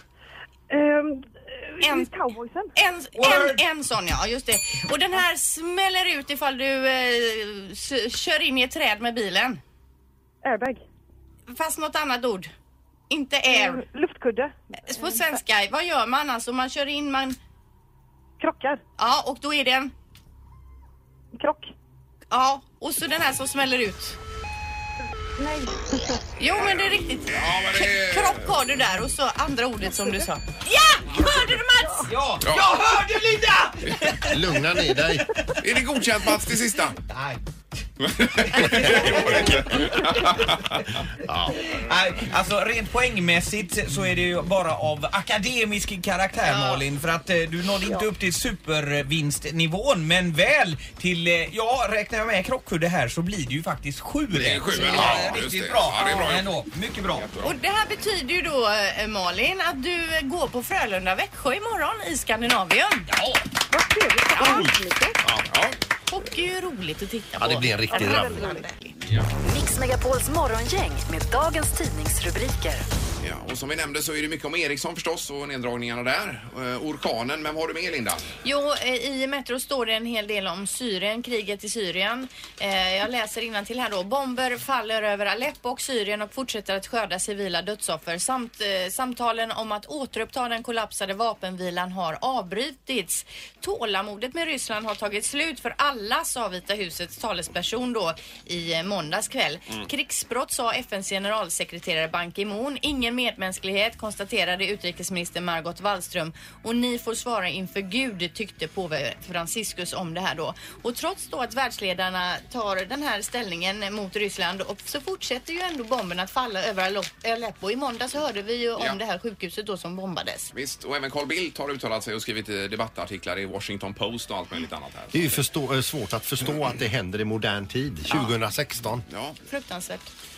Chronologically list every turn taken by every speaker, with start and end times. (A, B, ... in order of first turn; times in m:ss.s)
0:00.7-0:02.7 A
0:01.8-0:02.1 B
0:02.8-0:09.6 B
0:03.2-0:03.6 C
0:10.4-0:10.8 A
0:11.5-0:12.5 B
0:13.1-0:13.9 B
0:13.5-0:15.4 A
0:14.8-0:17.4 B
0:18.4-0:18.8 A
0:19.0-0:19.9 B
0:21.3-0:21.7 A
0:22.3-0:24.2 B
0:25.4-0:26.2 A
0:26.4-0:32.1 B
0:26.6-0:28.6 D
0:32.1-0:34.6 C
0:32.4-0:32.7 D
0:34.3-0:35.3 E
0:35.6-0:37.0 D
0:37.1-0:37.4 C
0:38.0-0:40.8 D
0:38.5-0:39.8 C
0:38.7-0:39.4 E
0:41.2-0:41.6 E
0:41.8-0:57.3 C
0:46.4-0:46.9 B
0:54.3-0:56.5 D
0:54.9-0:55.1 B
0:57.1-0:57.6 D
0:57.4-1:03.1 B
1:03.1-1:03.4 C
1:03.7-1:05.2 A
1:04.4-1:04.7 B
1:04.4-1:04.7 C
1:05.5-1:05.8 D
1:06.1-1:08.9 B
1:07.4-1:08.5 E
1:07.9-1:08.7 A
1:09.4-1:12.8 F
1:13.2-1:18.2 D
1:18.4-2:00.5 B
2:00.5-2:05.4 D
2:05.1-2:09.0 E
2:09.1-2:09.4 D
2:09.5-2:10.1 B